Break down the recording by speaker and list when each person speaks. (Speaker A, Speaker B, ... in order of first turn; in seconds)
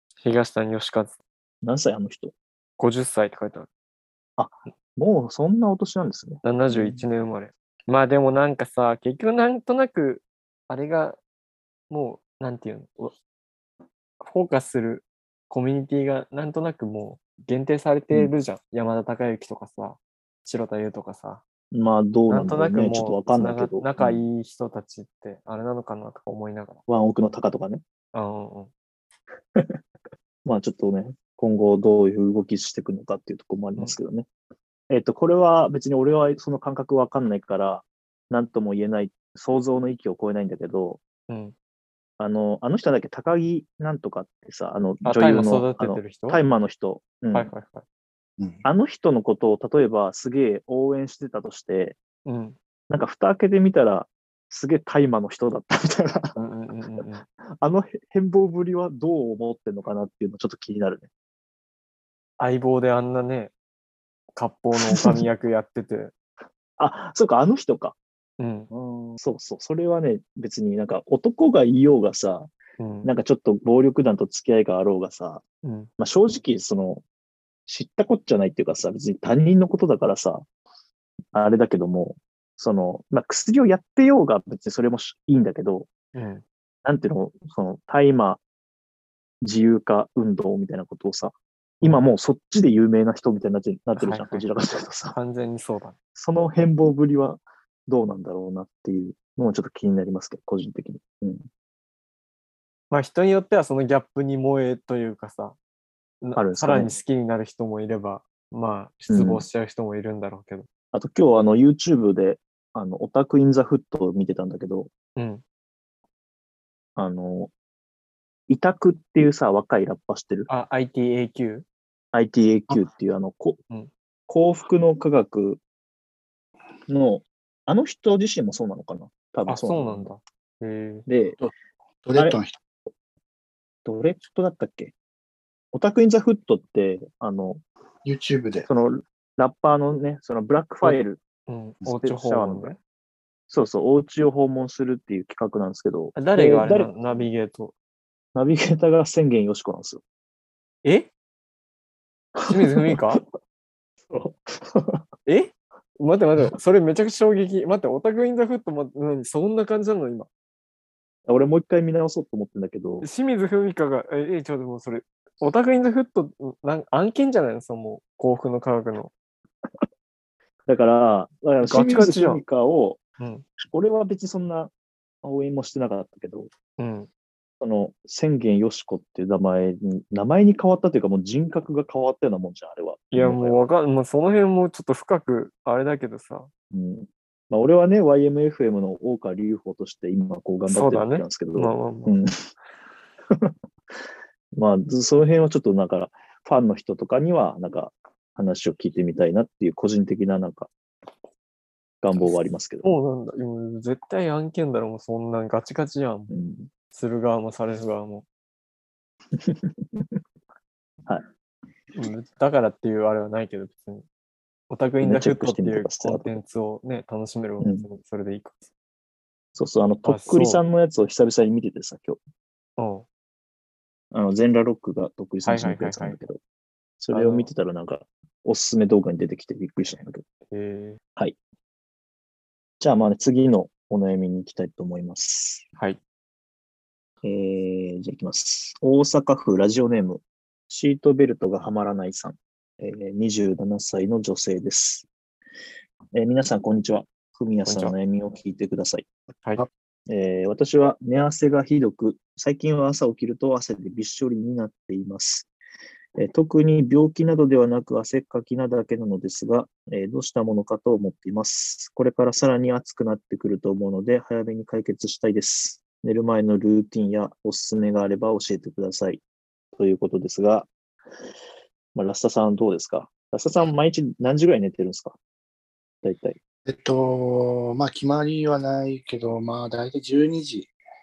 Speaker A: 0.2-1.1, 2.8-3.7, 6.4-11.2, 11.9-13.1, 14.2-21.4, 22.3-26.8, 28.1-28.7, 41.3-41.5, 45.0-46.4, 47.3-47.8, 52.2-52.6, 56.4-57.2, 62.4-63.5, 64.3-66.1, 68.4-68.7, 72.8-73.1, 75.6-75.9, 86.1-86.4, 94.0-94.5, 95.1-96.0, 102.9-105.6, 106.2-110.7, 115.2-115.4, 120.5-121.7, 129.5-131.1, 140.8-142.8, 146.2-147.7, 150.8-151.1, 152.5-153.2, 155.3-160.3, 163.0-169.1, 171.6-172.4, 173.2-173.5, 176.8-177.1, 183.1-186.5, 190.7-192.2, 202.8-206.4, 206.9-208.2, 211.9-214.1, 214.7-218.6, 220.0-220.6, 222.8-223.1, 225.4-226.2, 227.1-227.5, 230.5-231.0, 247.7-247.9
Speaker B: 1.6-2.3, 4.4-7.0, 21.7-24.3, 26.9-27.8, 30.4-34.3, 34.9-41.0, 42.2-47.5, 48.6-52.0, 52.9-56.4, 57.6-61.1, 64.8-65.2, 66.8-68.0, 68.7-72.5, 73.0-75.4, 76.0-77.0, 77.7-80.5, 81.3-85.9, 86.8-88.4, 89.4-95.2, 96.2-101.5, 106.3-106.9, 109.1-109.5, 110.9-114.9, 117.0-117.5, 118.5-120.5, 122.1-123.6, 124.3-125.6, 126.9-130.1, 131.1-131.4, 132.2-132.4, 133.8-134.9, 135.7-137.6, 138.7-141.2, 141.9-142.8, 143.5-147.2, 148.3-150.0, 152.4-153.0, 154.1-155.0, 161.3-163.1, 170.7-173.0, 173.7-174.7, 175.2-176.5, 177.6-183.6, 186.7-192.4, 194.6-200.7, 202.0-202.9, 206.3-206.7, 209.3-210.2, 215.0-216.4, 219.6-222.2, 224.1-226.4, 227.0-230.2, 232.8-235.7, 237.2-245.1, 246.1-249.1, 250.1-255.5, 256.2-269.2, 269.8-270.7, 271.9-275.2, 276.0-276.4
Speaker C: 132.0-132.6, 138.1-138.7, 276.7-280.7